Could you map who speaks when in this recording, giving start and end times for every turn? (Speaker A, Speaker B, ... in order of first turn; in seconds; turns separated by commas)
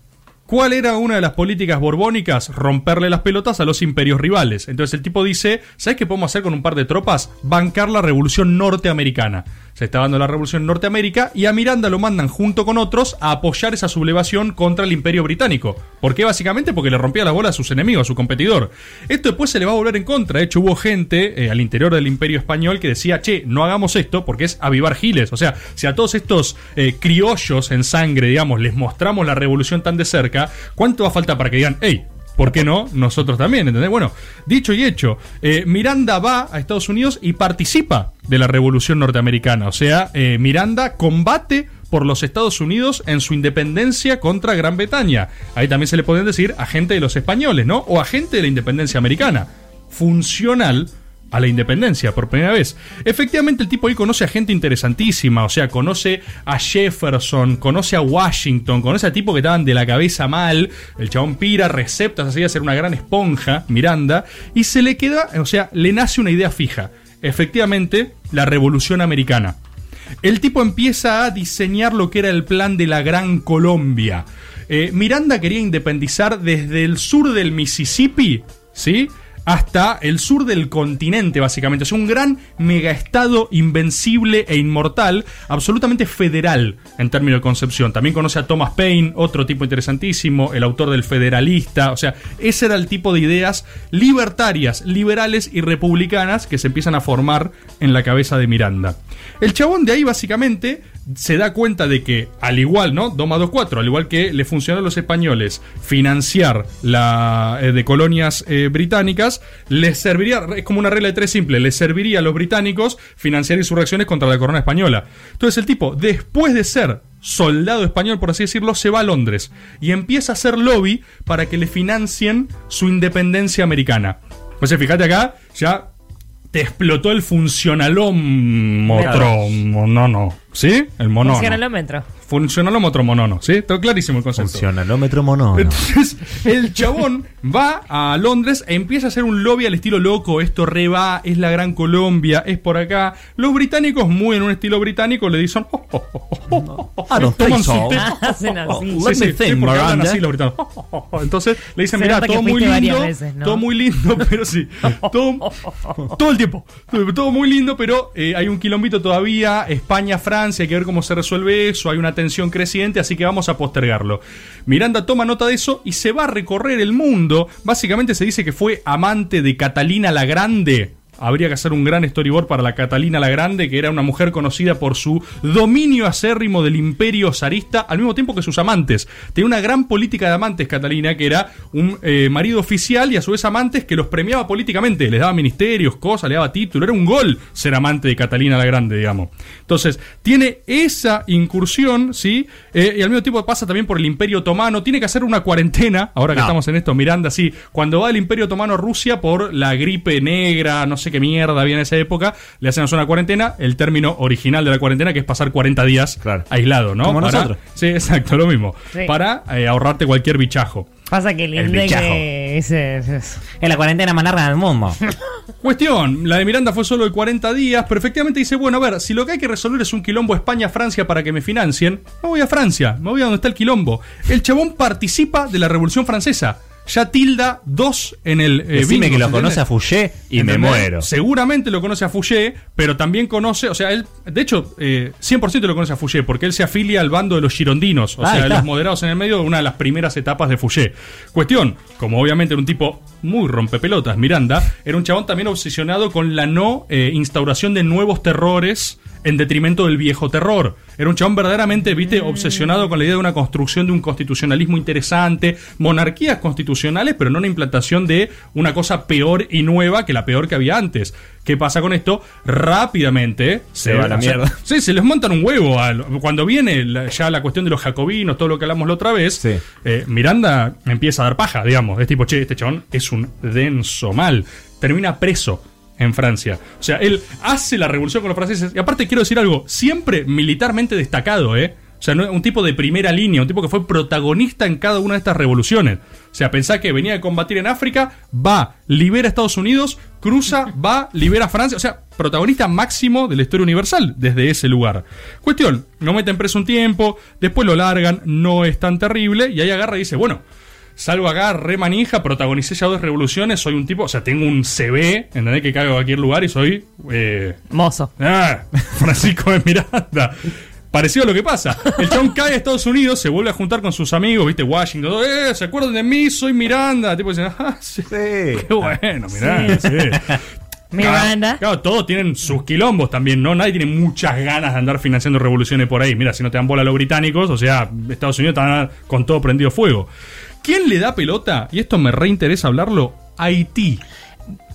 Speaker A: 0.5-69.6, Speaker A: 70.2-125.9, Speaker A: 126.5-131.6, Speaker B: 128.9-129.3, Speaker C: 129.0-129.3, Speaker B: 131.2-132.0, Speaker A: 132.2-134.7, Speaker C: 134.4-135.8, Speaker A: 135.5-210.9, Speaker C: 146.8-148.1, Speaker B: 147.4-149.0, Speaker C: 148.7-150.2, Speaker B: 151.9-153.6, Speaker C: 207.0-207.6, Speaker B: 211.1-213.4, Speaker C: 211.6-212.2, Speaker C: 213.6-215.0, Speaker A: 215.6-229.6, Speaker C: 228.7-231.1, Speaker A: 230.3-300.4, Speaker C: 238.2-238.7, Speaker C: 263.8-264.6, Speaker C: 269.4-269.6, Speaker A: 301.0-307.6, Speaker B: 307.7-308.1, Speaker A: 308.2-320.4, Speaker C: 318.1-318.7, Speaker B: 319.3-319.9, Speaker B: 320.9-321.6, Speaker A: 321.0-330.1, Speaker A: 330.6-334.0